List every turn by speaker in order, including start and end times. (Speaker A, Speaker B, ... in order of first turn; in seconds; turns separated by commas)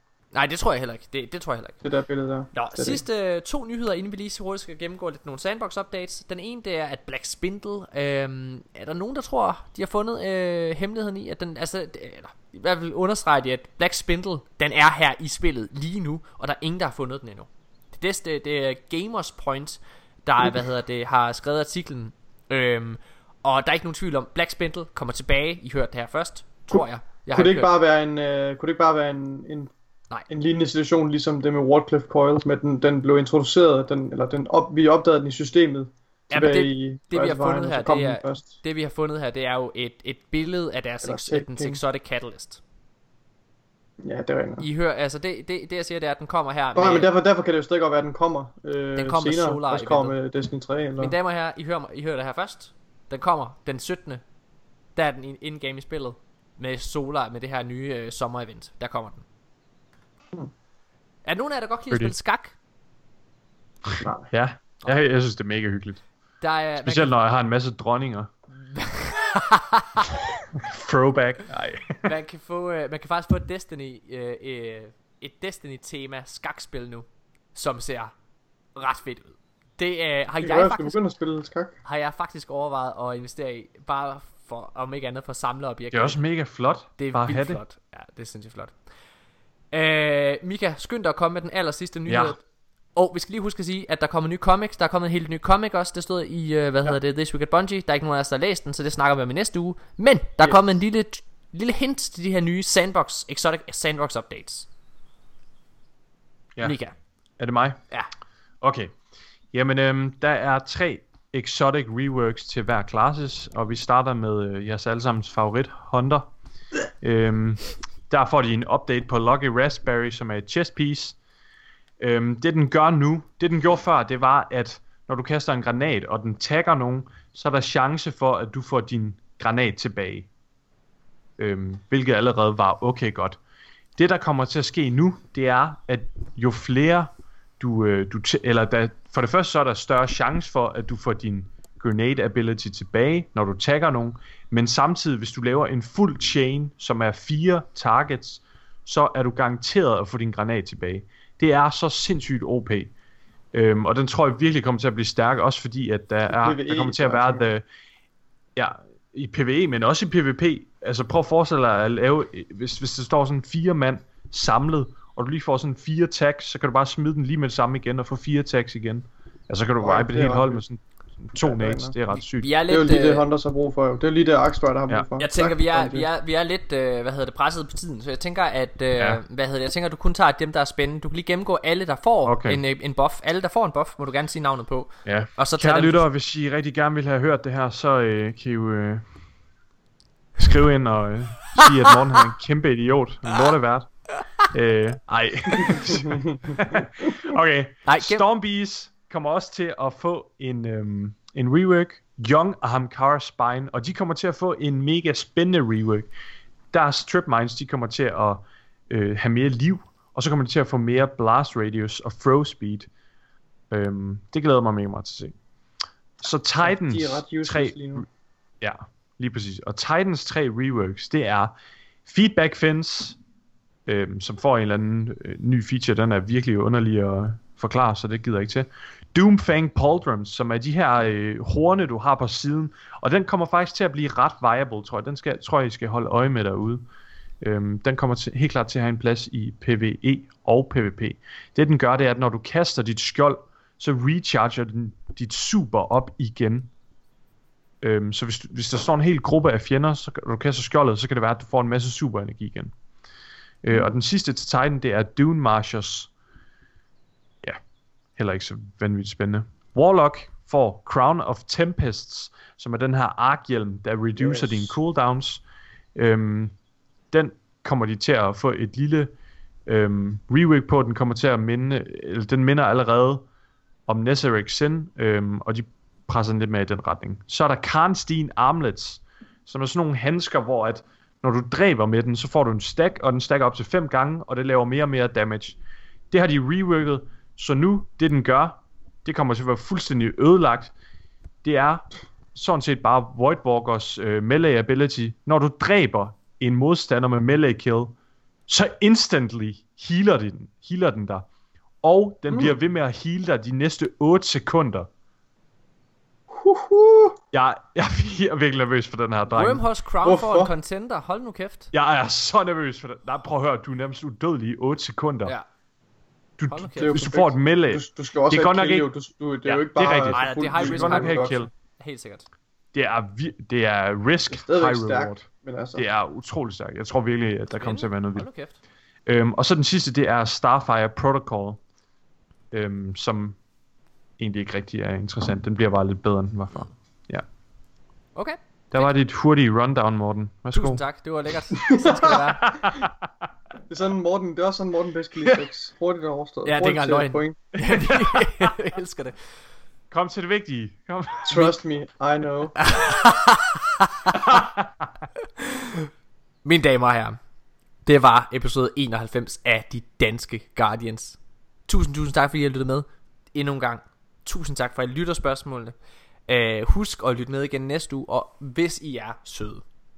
Speaker A: 0.3-1.8, Speaker B: 1.8-3.0, Speaker A: 2.5-27.7, Speaker B: 26.7-29.7, Speaker B: 30.3-38.6, Speaker A: 36.3-42.6, Speaker B: 41.0-41.8, Speaker B: 44.0-44.7, Speaker A: 44.6-47.1, Speaker B: 46.8-51.1, Speaker A: 49.0-50.1, Speaker A: 51.0-54.2, Speaker A: 55.0-59.2, Speaker A: 61.3-62.5, Speaker C: 63.9-66.0, Speaker B: 64.0-64.3, Speaker A: 66.4-67.1, Speaker C: 66.8-68.3, Speaker A: 68.5-70.1, Speaker C: 70.5-72.1, Speaker A: 72.0-78.1, Speaker A: 78.8-81.0, Speaker B: 80.4-81.8, Speaker A: 81.8-86.2, Speaker C: 85.9-87.6, Speaker A: 87.0-88.8, Speaker A: 89.7-92.4, Speaker C: 92.1-92.4, Speaker A: 93.0-104.7, Speaker A: 106.6-107.0, Speaker C: 107.4-107.8, Speaker C: 108.6-109.0, Speaker C: 109.5-116.3, Speaker C: 117.0-121.2, Speaker C: 122.0-130.3, Speaker C: 131.4-133.4, Speaker C: 134.0-152.9, Speaker C: 153.5-157.7, Speaker B: 156.3-157.4, Speaker C: 158.6-172.5, Speaker B: 169.8-170.6, Speaker B: 171.4-171.9, Speaker A: 172.2-173.2, Speaker B: 172.7-176.1, Speaker A: 175.2-186.1, Speaker C: 182.3-182.6, Speaker C: 185.1-189.0, Speaker C: 190.4-206.1, Speaker B: 195.7-196.6, Speaker A: 197.9-198.2, Speaker C: 206.7-212.9, Speaker C: 213.7-215.4, Speaker C: 216.2-218.1, Speaker B: 216.6-218.1, Speaker C: 218.6-221.5, Speaker C: 222.1-223.2, Speaker C: 223.9-236.9, Speaker C: 237.4-246.7, Speaker C: 247.8-252.7, Speaker C: 253.6-256.1, Speaker C: 258.2-265.4, Speaker B: 264.2-264.8, Speaker C: 266.0-266.6, Speaker C: 267.1-269.1, Speaker C: 269.7-273.3, Speaker C: 273.9-285.6, Speaker C: 286.1-290.7, Speaker C: 291.4-298.0, Speaker C: 298.5-301.3, Speaker C: 301.8-304.9, Speaker B: 306.3-307.2, Speaker C: 307.3-309.6, Speaker A: 309.3-311.7, Speaker B: 310.0-310.5, Speaker C: 311.7-315.3, Speaker C: 316.4-318.9, Speaker A: 316.5-317.1, Speaker B: 316.8-321.4, Speaker A: 319.5-322.3, Speaker C: 319.7-321.5, Speaker C: 322.7-328.3, Speaker B: 324.3-325.9, Speaker A: 327.5-328.6, Speaker C: 329.1-331.6, Speaker C: 332.5-333.4, Speaker C: 334.2-337.2, Speaker A: 338.1-338.9, Speaker C: 338.7-340.8, Speaker A: 340.5-342.4, Speaker B: 341.6-342.2, Speaker C: 342.4-342.9, Speaker B: 343.7-347.5, Speaker A: 346.4-349.1, Speaker C: 349.9-351.6, Speaker B: 351.3-352.6, Speaker A: 352.6-354.2, Speaker C: 354.1-354.9, Speaker A: 355.4-355.9, Speaker A: 356.4-357.2, Speaker A: 357.9-365.7, Speaker A: 366.3-369.6